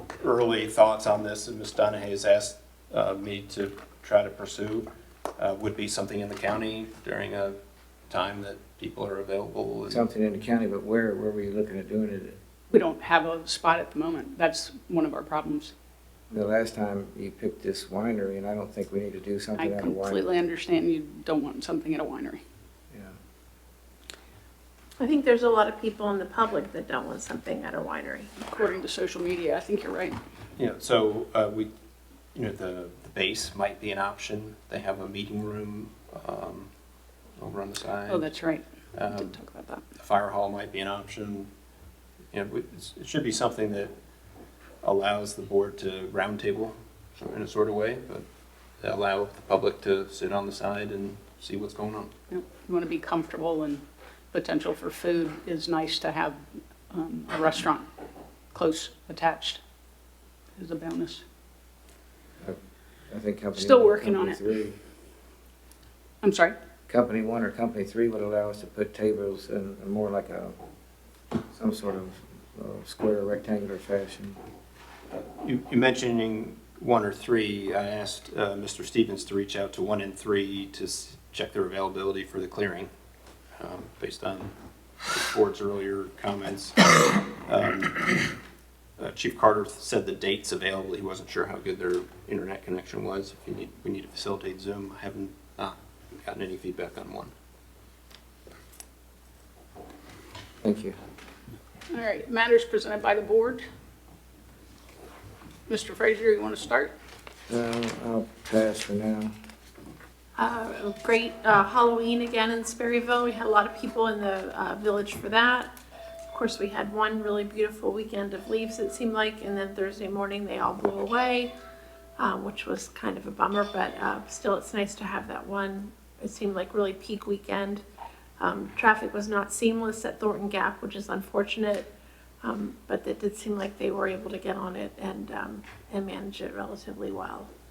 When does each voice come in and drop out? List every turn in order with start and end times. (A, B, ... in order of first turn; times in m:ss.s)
0:00.2-0:07.6 A
0:08.1-0:10.1 A
0:09.9-0:12.4 B
0:12.7-0:15.7 C
0:16.3-0:20.3 B
0:19.6-0:22.4 C
0:25.0-0:28.3 D
0:28.4-0:30.2 C
0:30.6-0:31.7 A
0:32.4-0:36.7 A
0:37.4-0:38.3 A
0:38.1-0:39.8 C
0:39.0-0:39.4 A
0:40.0-0:41.5 A
0:42.3-0:43.9 A
0:44.8-0:48.3 A
0:48.8-0:52.1 A
0:52.3-0:56.4 C
0:56.9-0:57.9 C
0:58.5-0:59.6 C
1:00.6-1:01.2 C
1:03.1-1:04.8 B
1:03.6-1:04.4 C
1:06.2-1:06.6 C
1:06.9-1:10.6 B
1:11.5-1:14.4 B
1:15.4-1:22.9 A
1:23.6-1:24.5 A
1:25.1-1:26.9 A
1:27.4-1:28.3 A
1:29.0-1:37.3 A
1:40.6-1:41.0 B
1:41.9-1:43.6 C
1:45.7-1:46.9 C
1:47.5-1:49.3 B
1:50.4-1:55.7 D
1:56.3-2:01.5 D
2:02.2-2:07.8 D
2:08.4-2:11.9 D
2:12.4-2:17.5 D